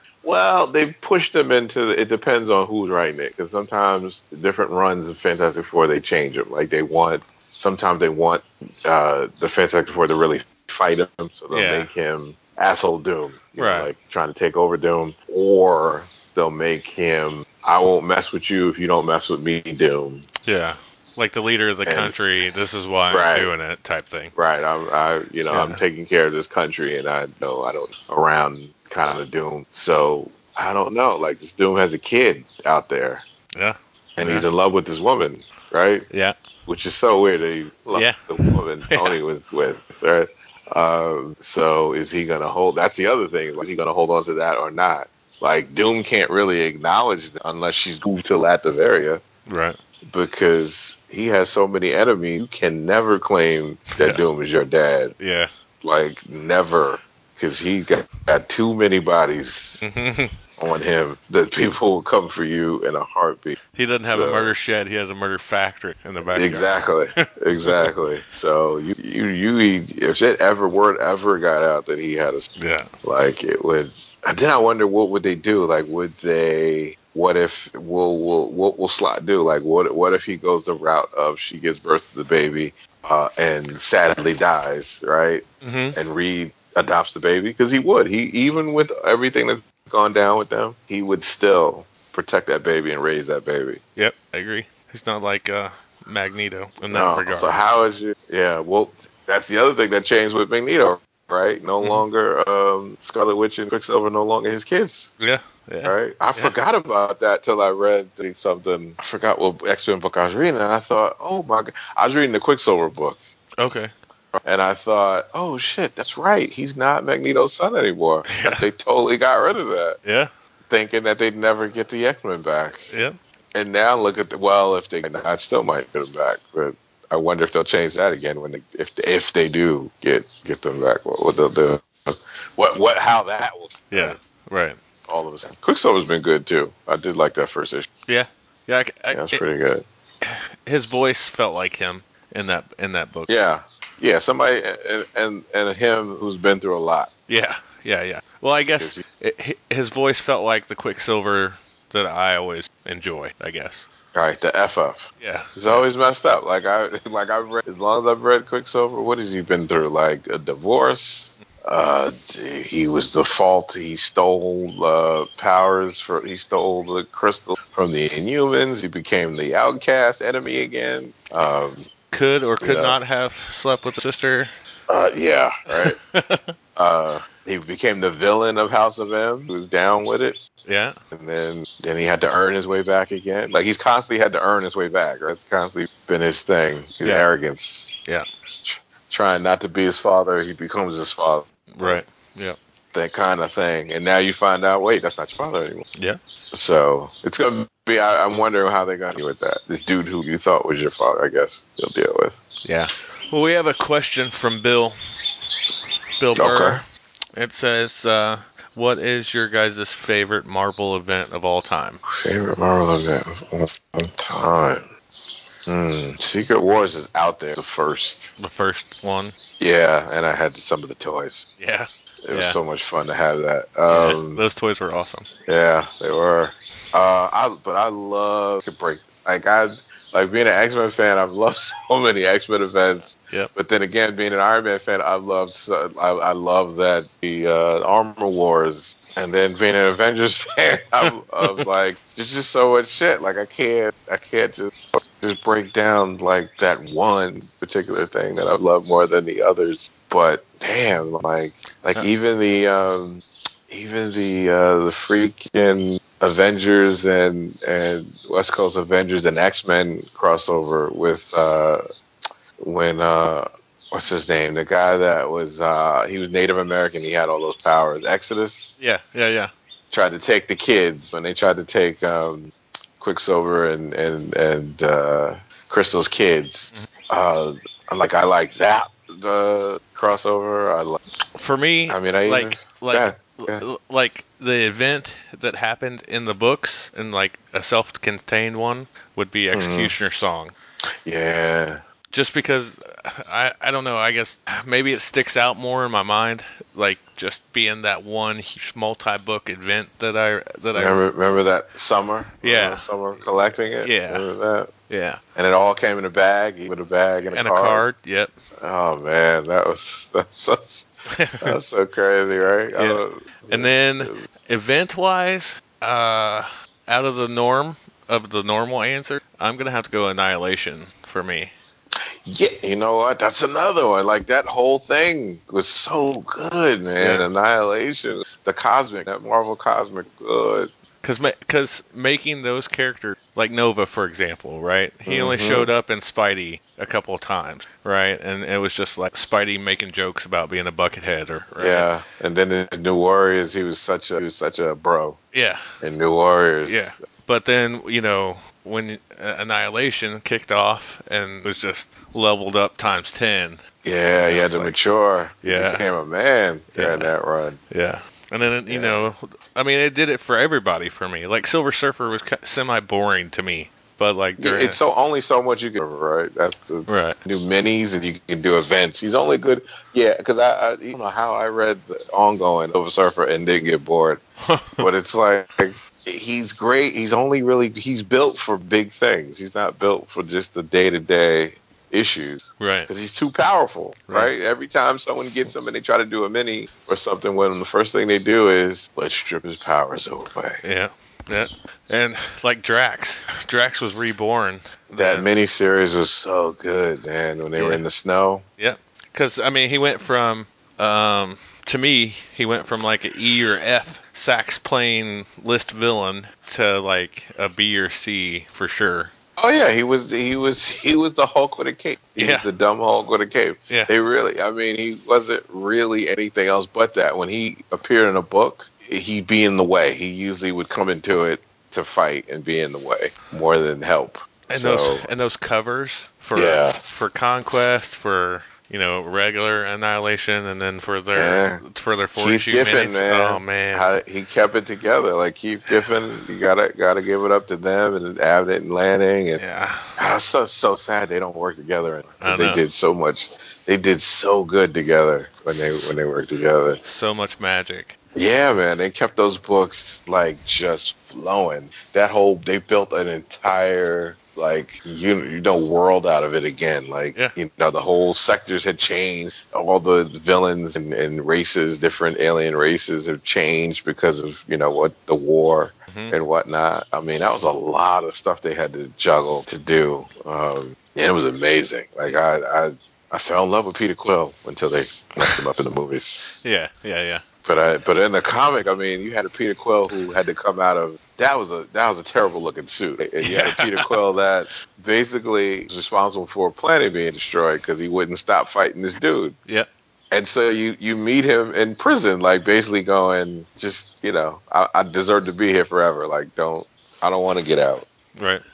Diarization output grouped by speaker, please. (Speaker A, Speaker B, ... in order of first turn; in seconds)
Speaker A: 0.2-20.3, 21.8-22.1, 23.1-23.5, 24.3-33.2, 34.2-36.1, 36.7-49.2, 50.1-55.1, 55.8-59.8, 60.6-64.5, 66.3-72.5, 73.0-93.8, 96.9-105.1, 105.8-113.2, 114.4-120.0, 120.7-122.9, 123.5-134.2, 135.1-137.9, 139.1-139.8, 143.3-147.1, 148.8-149.0, 154.1-171.8, 172.6-173.0, 174.9-176.0, 176.8-180.4, 181.1-187.9, 188.6-192.0, 192.9-195.8, 196.5-202.4, 206.3-206.8, 212.1-214.9, 215.7-218.3, 219.6-221.5, 222.2-224.4, 225.5-261.8, 262.6-268.8, 269.9-281.0, 281.9-283.6, 289.5-289.9, 291.0-291.8, 300.7-304.7, 305.4-307.9, 308.6-310.9, 311.4-314.3, 322.2-330.7, 335.1-335.7, 341.6-345.2, 345.8-346.9, 353.8-357.6, 358.7-359.1, 364.4-374.2, 374.8-390.6, 395.0-398.4, 409.4-425.1, 426.3-426.8, 431.1-431.6, 432.2-439.4, 440.0-446.8, 448.1-476.4, 477.4-489.4, 490.1-497.9
Speaker B: 11.5-11.9, 13.6-13.9, 20.4-24.3, 25.5-25.8, 33.5-34.5, 36.1-36.4, 37.9-39.2, 49.5-49.8, 53.9-54.2, 55.2-55.5, 59.8-60.3, 63.7-67.9, 72.6-72.9, 85.6-86.0, 94.0-97.5, 105.2-106.5, 113.6-113.9, 118.3-118.6, 120.0-120.3, 122.9-123.2, 133.9-134.8, 138.1-139.4, 140.2-143.3, 147.3-153.8, 155.2-155.8, 172.1-174.5, 175.7-176.5, 180.7-180.9, 191.7-192.6, 202.6-204.9, 206.2-212.0, 218.4-219.3, 221.6-222.6, 223.9-225.3, 233.2-233.5, 268.8-269.5, 281.4-290.5, 292.1-301.0, 302.4-302.9, 303.8-304.2, 304.9-305.2, 307.3-308.3, 311.1-311.5, 312.7-321.5, 327.0-327.2, 331.0-341.9, 345.3-345.7, 346.6-353.6, 354.1-354.7, 355.4-355.9, 356.8-357.1, 357.7-364.8, 366.9-367.2, 374.4-374.9, 382.6-382.9, 390.6-395.2, 397.6-397.8, 398.6-409.1, 412.2-412.4, 424.5-433.9, 439.4-439.9, 442.2-442.6, 446.8-447.9, 476.4-477.2, 483.2-483.9, 498.1-498.4